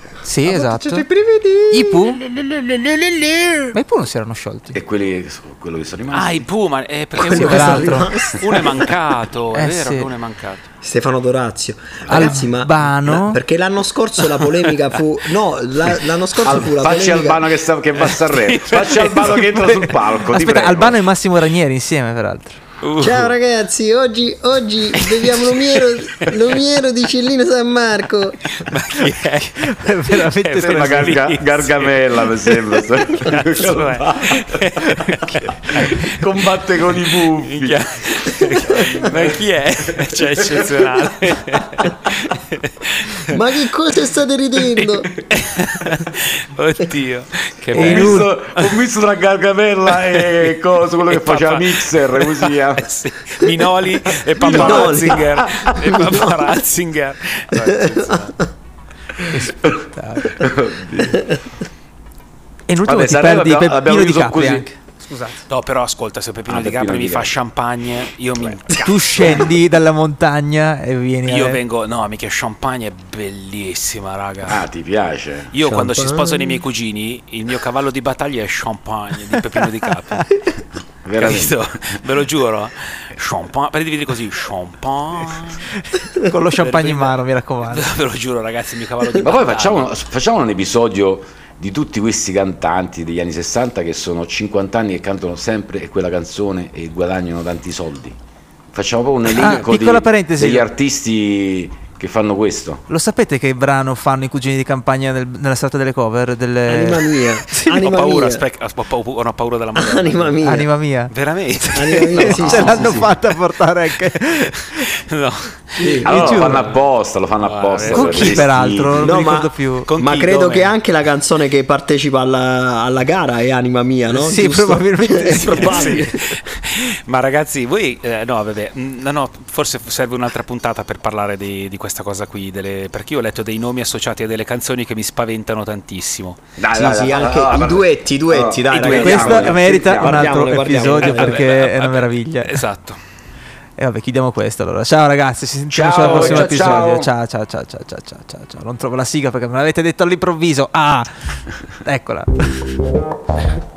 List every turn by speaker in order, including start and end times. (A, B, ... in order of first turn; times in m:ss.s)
0:00.2-0:01.1 A
0:00.4-0:03.8 B
0:01.7-0:02.2 A
0:03.7-0:04.8 A
0:04.7-0:06.5 C
0:06.1-0:10.6 D
0:07.1-0:09.0 B
0:07.3-0:08.1 A
0:09.6-0:10.1 A
0:10.8-0:17.5 B
0:12.1-0:13.4 A
0:16.4-0:21.1 C
0:18.0-0:19.4 D
0:19.5-0:22.6 A
0:22.8-0:23.3 D
0:23.0-0:28.5 B
0:25.0-0:26.6 D
0:28.5-0:36.3 D
0:29.6-0:31.3 A
0:30.6-0:34.6 C
0:35.4-0:37.8 C
0:37.2-0:43.4 D
0:38.7-0:39.4 C
0:38.8-0:39.1 B
0:43.3-0:45.1 B
0:44.8-0:48.8 D
0:47.7-0:48.0 B
0:47.7-0:48.3 A
0:47.8-0:52.8 C
0:49.9-0:58.4 D
0:54.4-0:55.7 C
0:54.5-0:55.2 B
0:55.9-0:56.6 B
0:57.6-0:58.0 B
0:59.2-1:00.4 A
0:59.5-1:01.4 C
1:02.7-1:05.4 A
1:02.8-1:04.7 C
1:05.5-1:09.6 D
1:06.5-1:07.4 C
1:08.8-1:11.6 A
1:09.2-1:09.5 C
1:11.2-1:14.7 D
1:14.4-1:15.6 C
1:15.5-1:20.3 D
1:15.6-1:16.6 B
1:21.0-1:21.7 C
1:21.1-1:25.7 D
1:25.9-1:27.9 A
1:26.6-1:27.2 D
1:27.7-1:29.9 D
1:29.2-1:38.2 C
1:38.7-1:42.8 C
1:39.3-1:40.7 A
1:42.9-1:47.8 A
1:46.7-1:48.4 B
1:47.6-1:50.4 D
1:49.7-1:50.7 B
1:50.4-1:51.1 A
1:51.1-1:53.3 D
1:51.7-1:53.2 B
1:52.1-1:54.9 A
1:54.8-1:56.8 D
1:55.8-1:56.1 B
1:55.9-1:56.7 A
1:56.0-1:59.2 C
1:57.4-1:58.5 D
1:57.9-1:59.9 A
1:58.9-2:06.2 B
1:59.9-2:00.8 D
2:04.1-2:06.1 A
2:05.4-2:16.4 D
2:16.6-2:20.6 C
2:16.7-2:21.5 B
2:18.8-2:22.6 A
2:20.8-2:23.0 D
2:23.8-2:32.6 A
2:25.7-2:27.1 C
2:26.1-2:26.5 D